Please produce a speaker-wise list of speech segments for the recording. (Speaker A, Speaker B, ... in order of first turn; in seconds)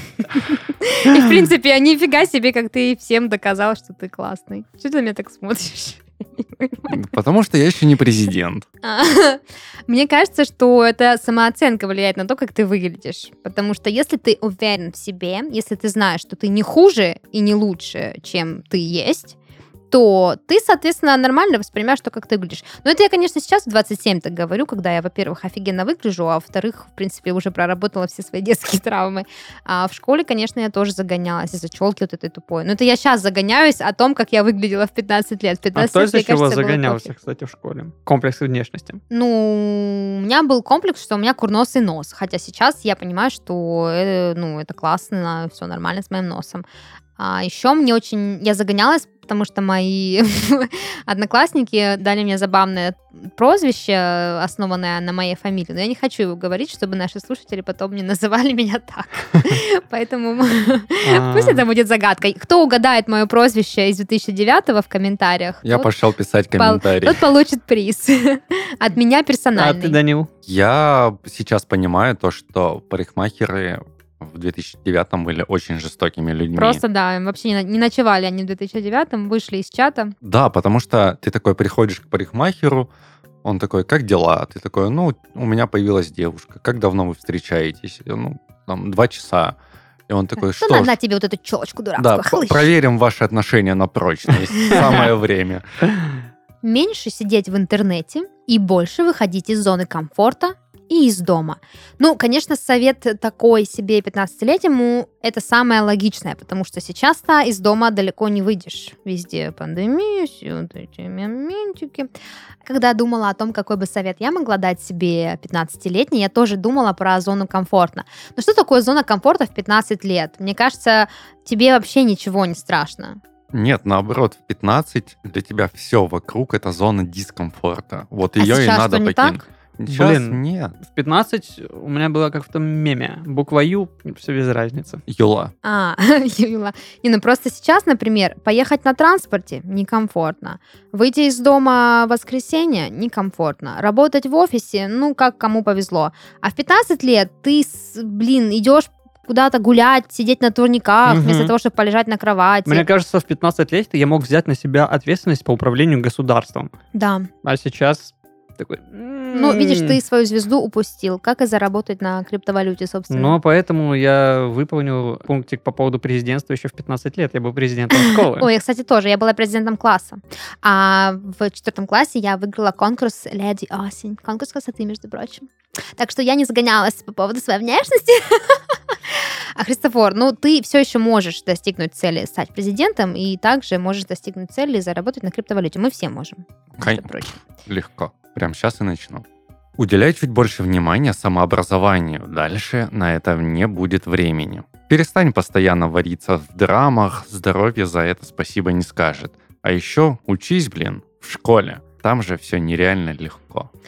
Speaker A: 0.3-7.0, 8.8-19.4, 19.9-37.1, 39.1-46.6, 47.2-65.9, 66.6-70.0, 76.5-80.1, 90.5-92.7, 94.7-95.0, 96.6-112.1, 112.6-123.2, 128.4-129.4, 135.6-152.9, 156.9-157.3, 159.3-163.4, 167.9-187.3
Speaker B: 6.9-8.7, 65.6-67.3, 70.5-76.8, 80.2-82.9, 83.4-89.5, 90.1-90.9, 92.0-95.6, 123.5-130.8, 135.1-135.5, 186.8-187.1, 187.6-189.2, 189.8-203.7
Speaker C: 35.7-39.0, 61.0-61.6, 69.5-70.3, 129.9-135.0, 151.1-151.5, 152.7-156.7, 157.4-160.0, 163.1-168.5